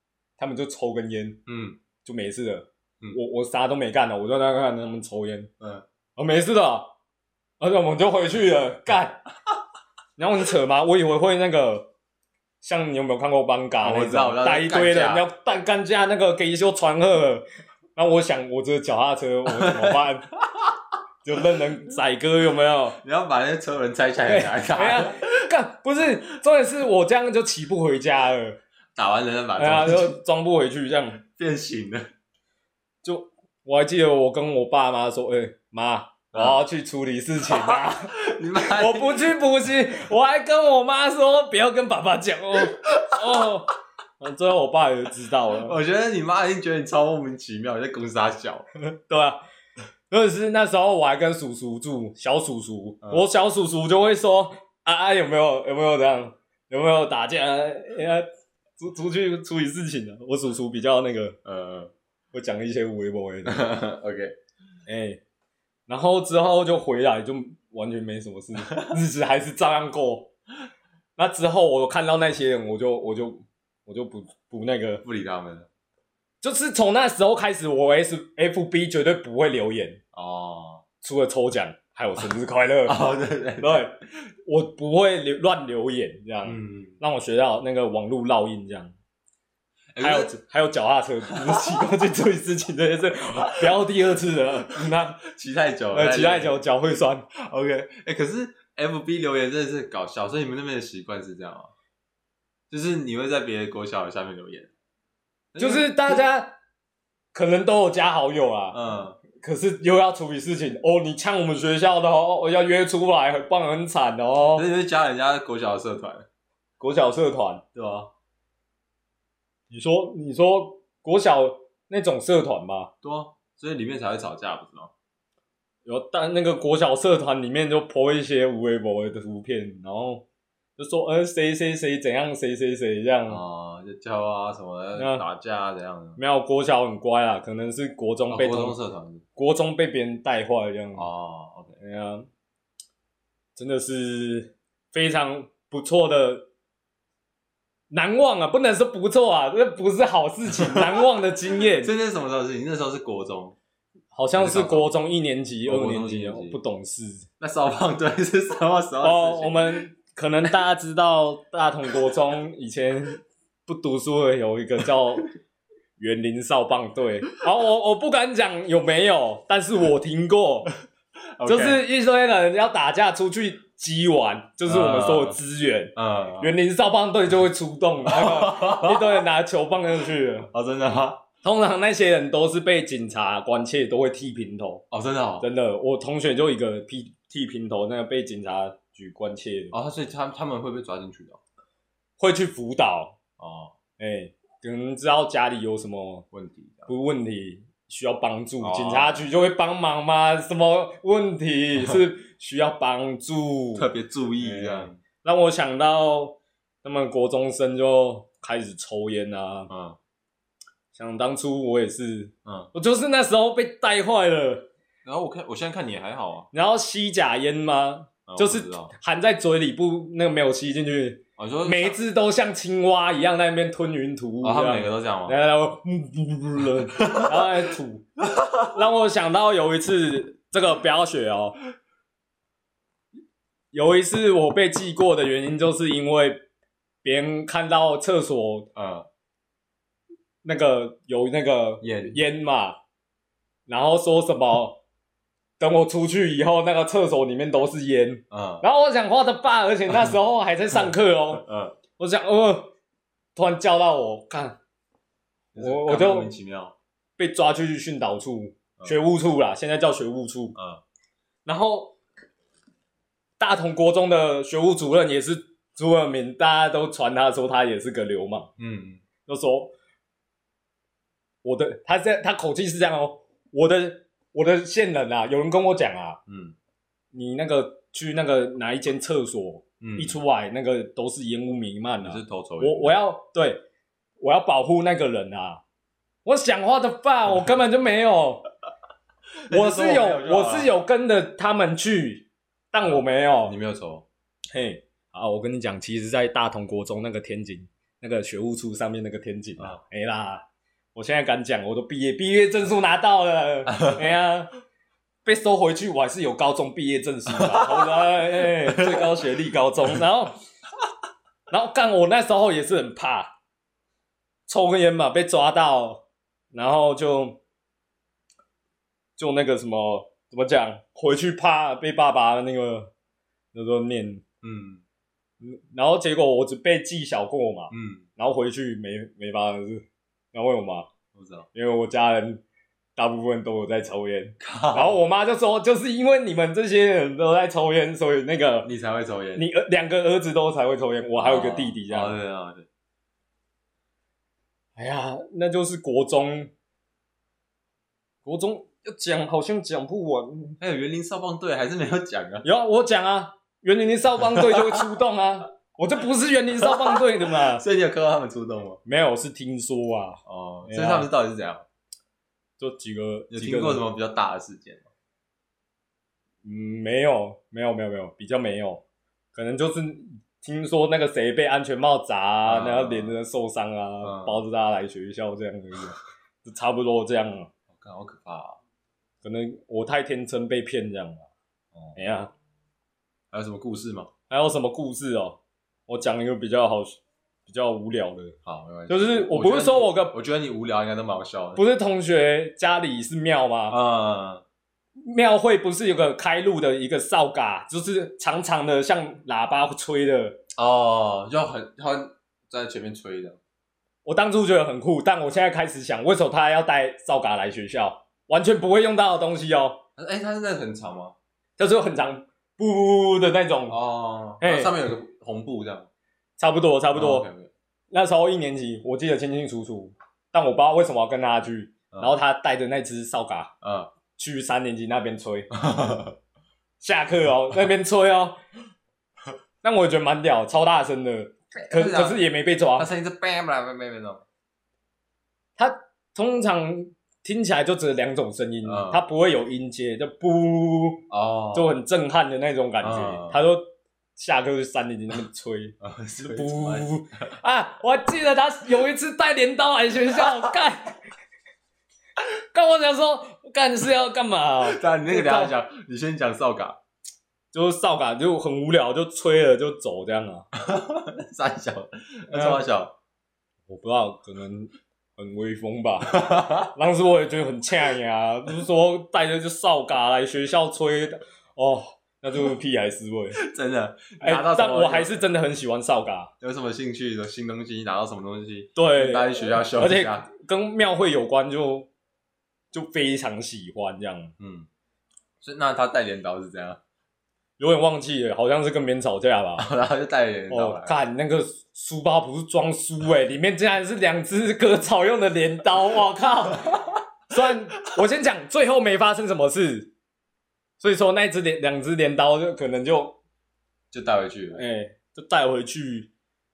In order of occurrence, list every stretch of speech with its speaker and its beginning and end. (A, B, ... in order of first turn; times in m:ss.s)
0:00.4-0:01.4 A
0:01.5-0:01.8 B
0:02.0-0:05.5 A
0:06.2-0:06.9 A
0:07.6-0:09.2 A
0:10.2-0:11.9 A
0:12.6-0:17.4 A
0:13.8-0:15.2 B
0:18.0-0:20.3 A
0:19.5-0:20.7 B
0:21.2-0:23.0 A
0:23.0-0:25.3 B
0:24.3-0:28.6 A
0:29.0-0:30.2 B
0:29.6-0:31.2 A
0:31.2-0:32.0 B
0:33.0-0:45.8 A
0:36.3-0:36.6 B
0:37.5-0:39.4 B
0:45.5-0:48.7 B
0:48.9-0:49.4 A
0:50.1-0:58.3 A
0:58.8-1:01.4 A
1:01.4-1:01.9 B
1:02.3-1:03.7 A
1:03.5-1:04.4 B
1:04.9-1:05.2 A
1:05.9-1:10.3 A
1:08.7-1:08.9 B
1:11.2-1:15.0 A
1:15.0-1:15.7 B
1:16.4-1:20.0 A
1:20.1-1:20.8 B
1:21.0-1:29.0 A
1:22.9-1:23.9 B
1:26.4-1:27.0 B
1:29.9-1:30.3 B
1:30.0-1:35.2 A
1:31.3-1:31.7 B
1:33.5-1:33.8 B
1:35.2-1:36.6 B
1:35.9-1:37.3 A
1:37.3-1:41.7 B
1:42.7-1:44.7 B
1:45.5-1:46.2 B
1:45.6-1:46.6 A
1:47.3-1:48.8 A
1:48.7-1:49.2 B
1:49.3-1:54.6 A
1:54.6-1:56.3 B
1:56.8-1:57.6 A
1:57.8-1:58.1 B
1:59.7-2:02.9 A
2:03.0-2:04.9 B
2:05.9-2:10.2 A
2:10.8-2:13.4 A
2:13.3-2:16.2 B
2:15.0-2:15.2 A
2:16.2-2:18.8 A
2:18.3-2:19.2 B
2:19.4-2:21.1 A
2:21.0-2:21.8 B
2:21.8-2:22.3 A
2:23.6-2:26.5 A
2:27.9-2:31.9 A
2:30.5-2:33.6 B
2:34.1-2:37.3 A
2:34.4-2:34.9 B
2:35.6-2:36.6 B
2:37.4-2:39.8 B
2:39.0-2:45.3 A
2:46.0-2:50.7 A
2:51.4-2:51.8 B
2:51.5-3:00.5 A
2:54.7-2:55.4 B
2:56.0-2:56.5 B
2:58.1-2:59.2 B
3:00.5-3:01.2 B
3:01.4-3:04.9 A
3:04.9-3:05.5 B
3:05.4-3:09.8 A
3:09.7-3:11.4 B
3:12.2-3:13.2 A
3:13.4-3:13.7 B
3:14.0-3:16.3 A
3:16.3-3:16.9 B
3:16.9-3:23.9 A
3:18.6-3:19.3 B
3:23.8-3:25.0 B
3:24.4-3:29.7 A
3:29.7-3:30.0 B
3:30.9-3:34.7 A
3:32.4-3:32.7 B
3:35.0-3:36.5 B
3:36.5-3:48.1 A
3:38.3-3:38.9 B
3:41.4-3:42.0 B
3:44.4-3:45.4 B
3:47.0-3:47.4 B
3:48.3-3:48.6 B
3:48.6-3:51.6 A
3:53.7-3:56.4 A
3:57.0-3:58.7 A
3:58.8-3:59.1 B
4:00.4-4:02.8 A
4:01.8-4:02.2 B
4:03.7-4:04.8 A
4:05.6-4:11.4 A
4:08.3-4:08.6 B
4:11.4-4:11.8 B
4:12.0-4:12.7 A
4:13.4-4:14.6 A
4:15.5-4:16.8 B
4:15.6-4:16.3 A
4:17.2-4:20.6 A
4:20.6-4:20.8 B
4:21.4-4:22.0 A
4:23.4-4:28.5 A
4:28.6-4:29.0 B
4:29.3-4:29.7 A
4:31.4-4:36.2 A
4:36.3-4:36.6 B
4:37.1-4:43.6 A
4:39.8-4:40.2 B
4:42.0-4:43.0 B
4:44.2-4:45.6 A
4:46.2-4:48.5 A
4:49.4-4:50.7 B
4:49.5-4:53.6 A
4:52.8-4:54.0 B
4:54.5-5:00.4 A
5:01.0-5:04.5 A
5:03.7-5:04.1 B
5:05.2-5:10.4 A
5:07.3-5:09.2 B
5:11.5-5:13.3 A
5:14.5-5:17.4 A
5:19.2-5:22.9 A
5:23.5-5:24.2 A
5:24.4-5:24.8 B
5:25.4-5:30.9 A
5:27.7-5:28.1 B
5:31.1-5:31.5 B
5:31.5-5:32.4 A
5:33.0-5:38.7 A
5:34.4-5:35.0 B
5:38.6-5:39.5 B
5:39.4-5:42.2 A
5:41.2-5:42.7 B
5:44.8-5:46.5 A
5:48.2-5:50.6 A
5:50.6-5:52.5 B
5:52.4-5:57.6 A
5:54.3-5:54.8 B
5:56.6-5:58.8 B
5:58.8-6:01.1 A
6:00.3-6:01.6 B
6:02.6-6:03.8 A
6:03.3-6:04.9 B
6:06.4-6:08.8 A
6:09.3-6:17.5 A
6:12.4-6:13.2 B
6:14.0-6:14.4 B
6:17.7-6:18.6 B
6:19.2-6:21.3 A
6:22.0-6:22.3 A
6:23.3-6:24.1 B
6:24.3-6:28.4 A
6:28.4-6:31.6 B
6:28.9-6:30.2 A
6:31.6-6:33.8 A
6:33.7-6:34.4 B
6:35.0-6:40.4 A
6:40.6-6:43.4 B
6:44.0-6:49.8 A
6:50.0-6:51.2 B
6:51.6-6:53.8 A
6:53.7-6:55.9 B
6:54.4-6:54.7 A
6:56.4-6:57.3 A
6:56.9-6:57.5 B
6:57.9-7:03.5 A
7:01.9-7:02.2 B
7:03.6-7:03.9 B
7:04.2-7:05.5 A
7:05.5-7:06.2 B
7:06.8-7:08.4 A
7:09.6-7:12.9 A
7:11.6-7:14.2 B
7:15.6-7:31.0 A
7:18.6-7:19.0 B
7:21.1-7:21.7 B
7:22.8-7:23.5 B
7:25.8-7:27.0 B
7:32.5-7:35.5 A
7:34.6-7:36.8 B
7:37.5-7:40.5 A
7:40.5-7:43.0 B
7:42.3-7:42.7 A
7:43.7-7:53.4 A
7:46.1-7:46.7 B
7:53.4-7:55.2 B
7:54.2-7:56.3 A
7:56.4-8:00.3 B
7:58.8-8:01.9 A
8:02.7-8:04.3 A
8:04.4-8:04.7 B
8:05.4-8:06.8 B
8:07.6-8:09.7 A
8:09.6-8:11.0 B
8:10.5-8:19.9 A
8:20.8-8:23.2 A
8:23.9-8:24.6 B
8:24.5-8:26.1 A